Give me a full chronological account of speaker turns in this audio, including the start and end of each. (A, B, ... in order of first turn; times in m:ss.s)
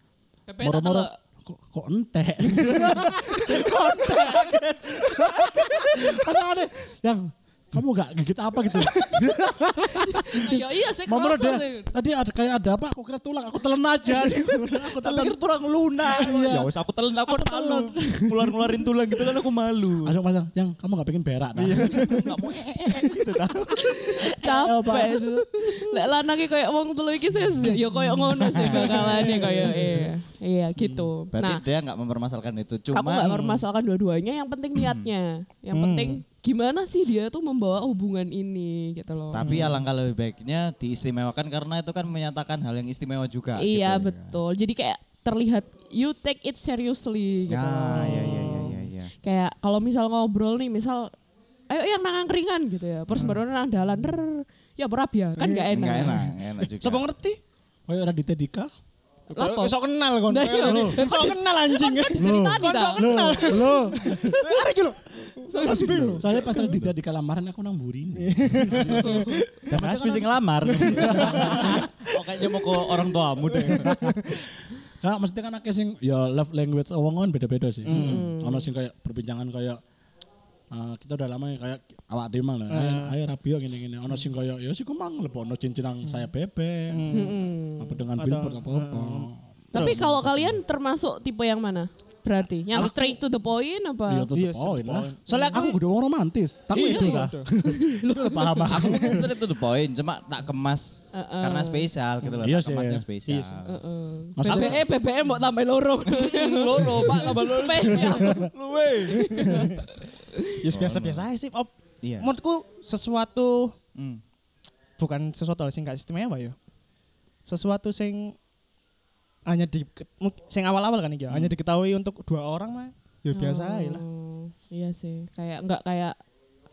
0:00.5-0:01.1 A
0:00.6-0:15.4 B
0:03.4-0:04.4 A
0:03.4-0:06.2 C
0:09.9-0:11.9 A
0:14.9-0:20.2 C
0:16.0-0:16.7 B
0:17.3-0:18.7 B
0:20.0-0:22.2 B
0:21.6-0:24.3 C
0:23.9-0:31.6 A
0:24.4-0:25.3 B
0:28.3-0:29.5 C
0:28.6-0:30.1 D
0:30.8-0:33.5 C
0:32.9-0:39.6 A
0:33.2-0:33.6 D
0:34.8-0:35.1 C
0:35.7-0:36.2 D
0:39.3-0:44.4 C
0:39.4-0:39.8 D
0:43.6-0:48.4 A
0:47.5-0:49.1 C
0:48.0-0:48.8 D
0:49.2-0:51.1 A
0:51.7-0:56.3 A
0:55.4-0:56.2 D
0:55.7-0:57.1 C
0:56.8-0:57.4 D
0:57.9-0:58.7 B
0:59.3-0:59.7 A
0:59.4-1:06.8 D
1:00.3-1:03.6 A
1:00.6-1:01.0 B
1:02.2-1:04.5 B
1:05.5-1:06.0 A
1:06.0-1:06.2 C
1:06.1-1:11.9 B
1:08.2-1:09.5 D
1:09.0-1:09.4 A
1:09.7-1:14.1 C
1:11.4-1:11.6 D
1:13.7-1:14.3 B
1:13.7-1:14.2 D
1:15.0-1:19.8 B
1:17.8-1:18.2 D
1:17.9-1:18.7 A
1:20.7-1:30.6 B
1:22.7-1:23.1 D
1:26.9-1:27.4 D
1:27.1-1:28.0 A
1:28.2-1:30.0 D
1:29.7-1:34.3 A
1:32.8-1:33.2 D
1:34.1-1:39.3 B
1:34.4-1:35.8 D
1:35.3-1:35.7 A
1:36.7-1:37.5 D
1:36.7-1:39.0 A
1:38.7-1:43.8 C
1:41.1-1:41.9 A
1:42.4-1:43.0 B
1:43.3-1:43.6 D
1:43.6-1:48.5 A
1:44.4-1:44.8 B
1:44.5-1:44.8 C
1:46.1-1:49.7 C
1:48.1-1:48.5 B
1:49.1-1:50.6 A
1:49.3-1:49.6 D
1:50.6-1:53.7 D
1:50.7-1:51.3 C
1:52.0-1:52.3 C
1:54.0-1:54.2 C
1:55.0-1:56.6 D
1:57.5-1:58.4 D
1:59.5-2:04.0 D
2:01.3-2:01.5 C
2:03.3-2:06.2 A